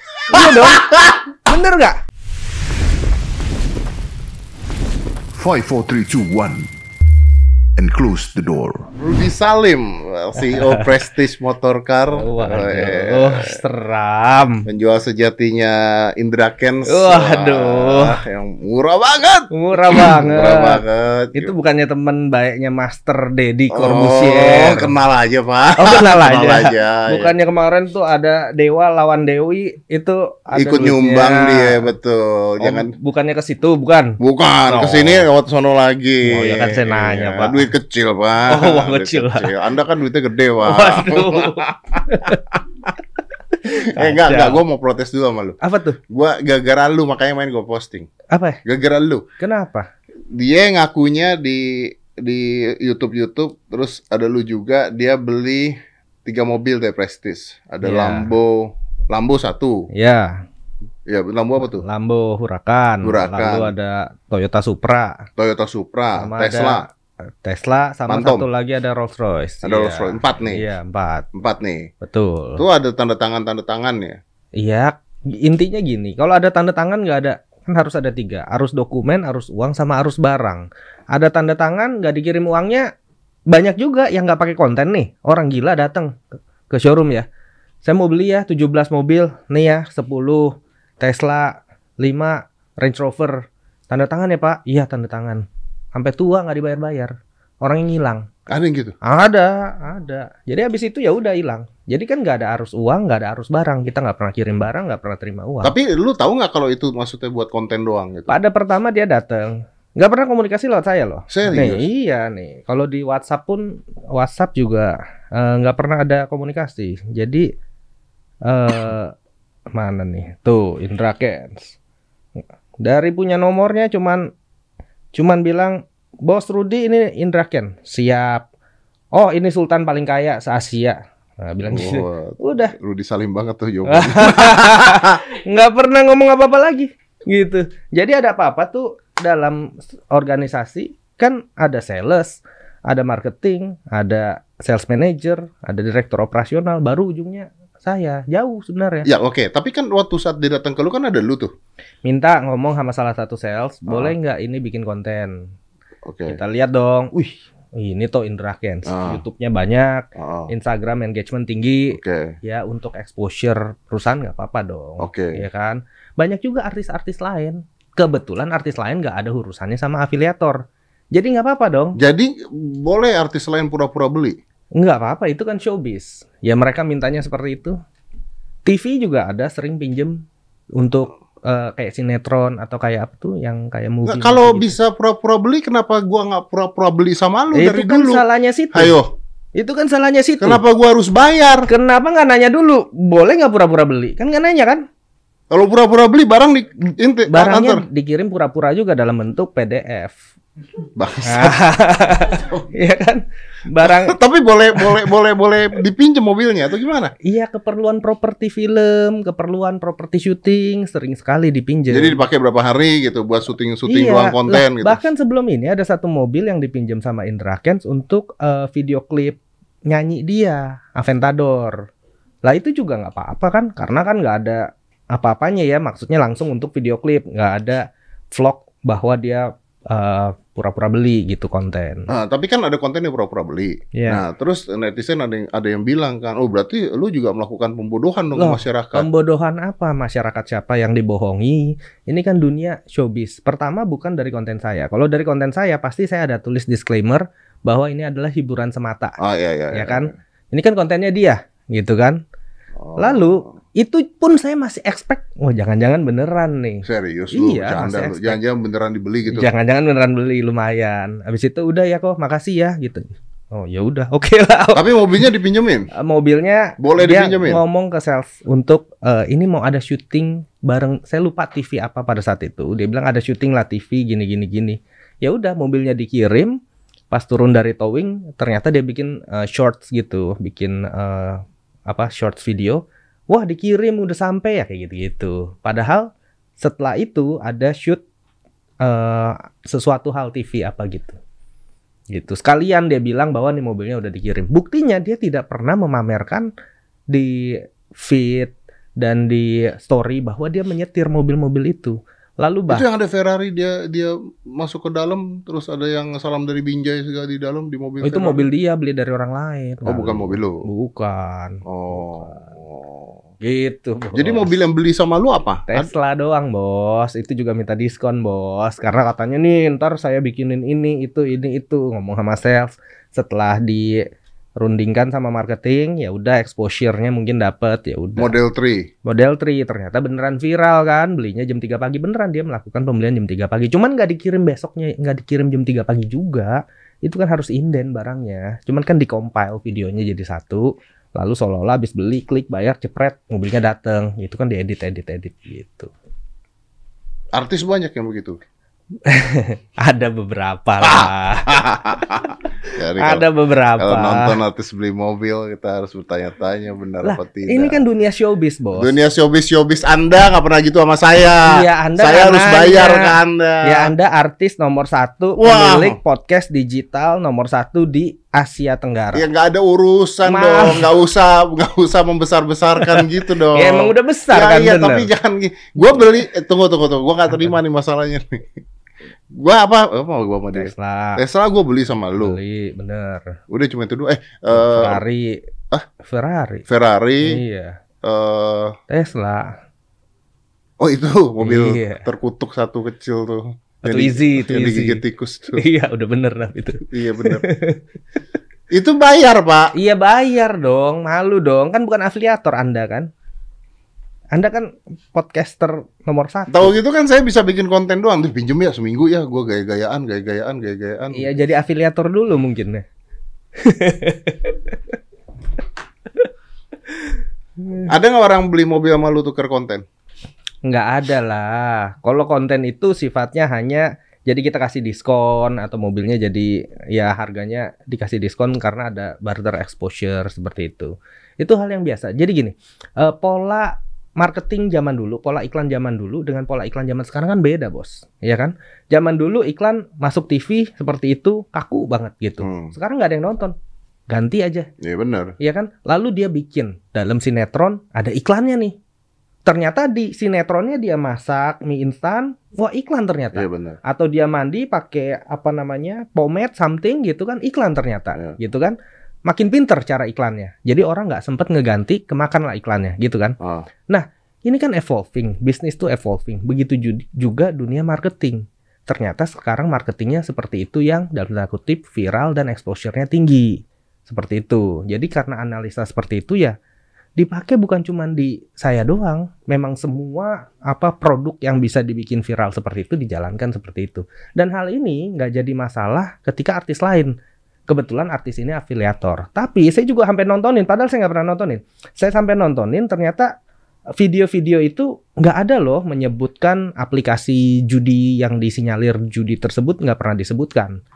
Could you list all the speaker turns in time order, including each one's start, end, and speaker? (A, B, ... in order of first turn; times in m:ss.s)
0:00.3-0:02.0 A
0:00.6-0:01.1 B
0:05.4-0:06.7 C
0:07.8-0:08.9 C
0:09.0-0:13.6 B
0:10.5-0:10.8 A
0:12.1-0:14.6 A
0:14.6-0:21.5 B
0:16.9-0:18.2 A
0:19.5-0:20.8 A
0:21.3-0:24.9 A
0:23.7-0:27.3 B
0:25.8-0:31.9 A
0:30.6-0:32.9 B
0:32.6-0:35.3 A
0:34.2-0:42.9 B
0:36.3-0:37.7 A
0:38.5-0:39.5 A
0:40.6-0:42.4 A
0:43.7-0:48.1 B
0:44.0-0:44.6 A
0:45.6-0:46.0 A
0:48.3-0:48.6 A
0:48.6-0:49.2 B
0:49.4-0:49.9 A
0:50.3-0:59.9 B
0:57.8-0:58.3 A
0:59.9-1:00.4 A
1:01.1-1:01.8 B
1:01.6-1:05.3 A
1:03.0-1:03.7 B
1:05.4-1:06.8 B
1:06.2-1:11.3 A
1:08.1-1:08.5 B
1:09.6-1:10.6 B
1:11.4-1:11.9 B
1:12.0-1:12.6 A
1:12.6-1:14.2 B
1:14.6-1:22.9 A
1:23.5-1:26.2 A
1:26.7-1:27.3 A
1:27.8-1:38.3 A
1:38.5-1:39.0 B
1:39.0-1:45.7 A
1:45.6-1:48.4 B
1:48.3-1:57.5 A
1:51.3-1:51.8 B
1:58.4-1:59.1 A
1:59.7-2:01.7 A
2:02.4-2:04.3 A
2:05.1-2:08.4 A
2:09.1-2:12.7 A
2:11.7-2:15.2 B
2:13.9-2:29.1 A
2:29.0-2:31.5 B
2:32.0-2:35.5 A
2:33.9-2:34.1 B
2:36.0-2:36.4 B
2:36.3-2:50.6 A
2:38.9-2:39.2 B
2:40.2-2:40.5 B
2:41.9-2:42.4 B
2:45.0-2:45.4 B
2:51.1-2:52.0 A
2:52.0-2:54.4 B
2:54.8-2:57.8 A
2:58.6-3:04.7 A
3:04.1-3:09.1 B
3:07.5-3:09.0 A
3:09.6-3:10.6 A
3:10.4-3:11.7 B
3:11.7-3:14.9 A
3:15.5-3:17.8 B
3:17.3-3:20.2 A
3:21.0-3:21.6 B
3:21.2-3:24.2 A
3:23.8-3:27.1 B
3:24.8-3:25.1 A
3:27.2-3:32.2 A
3:31.9-3:35.0 B
3:33.9-3:41.8 A
3:42.4-3:52.1 A
3:52.1-3:59.1 B
3:53.9-3:54.2 A
3:58.4-4:09.2 A
4:09.2-4:10.1 B
4:09.7-4:12.2 A
4:12.8-4:13.5 B
4:13.0-4:18.4 A
4:16.8-4:19.5 B
4:19.3-4:25.2 A
4:24.8-4:25.9 B
4:25.9-4:36.5 A
4:26.8-4:27.6 B
4:37.1-4:46.1 A
4:46.6-4:48.0 A
4:48.8-4:51.2 A
4:52.1-4:56.5 A
4:57.1-5:02.8 A
5:02.7-5:08.4 B
5:08.0-5:12.4 A
5:09.9-5:10.7 B
5:11.7-5:13.2 B
5:13.4-5:14.5 A
5:14.1-5:15.9 B
5:15.7-5:24.0 A
5:24.6-5:28.3 A
5:28.2-5:28.9 B
5:29.0-5:45.9 A
5:47.3-5:48.4 B
5:49.0-5:51.6 A
5:50.8-5:57.8 B
5:53.0-5:54.4 A
5:57.0-5:59.0 A
5:58.8-6:03.9 B
6:01.4-6:09.2 A
6:05.4-6:06.0 B
6:09.1-6:18.6 B
6:10.2-6:10.9 A
6:12.8-6:15.1 A
6:19.3-6:22.4 B
6:20.5-6:21.2 A
6:22.2-6:23.4 A
6:23.5-6:25.0 B
6:24.5-6:25.5 A
6:26.0-6:26.6 A
6:26.7-6:27.4 B
6:27.2-6:27.8 A
6:28.0-6:28.8 B
6:28.9-6:29.5 A
6:30.8-6:35.6 B
6:31.4-6:32.1 A
6:33.8-6:35.0 A
6:35.5-6:37.8 A
6:36.9-6:37.4 B
6:38.7-6:39.7 B
6:39.8-6:43.1 A
6:44.3-6:46.8 A
6:46.5-6:51.4 B
6:51.1-6:52.8 A
6:53.6-6:54.8 A
6:56.9-6:57.8 A
6:57.9-6:59.8 B
7:00.6-7:23.6 A
7:22.4-7:22.7 B
7:24.1-7:24.7 A
7:24.8-7:25.3 B
7:25.4-7:28.8 A
7:29.4-7:43.4 A
7:33.3-7:33.8 B
7:43.4-7:43.7 B
7:43.9-7:56.6 A
7:57.2-8:07.2 A
8:07.7-8:13.3 A
8:14.0-8:20.8 A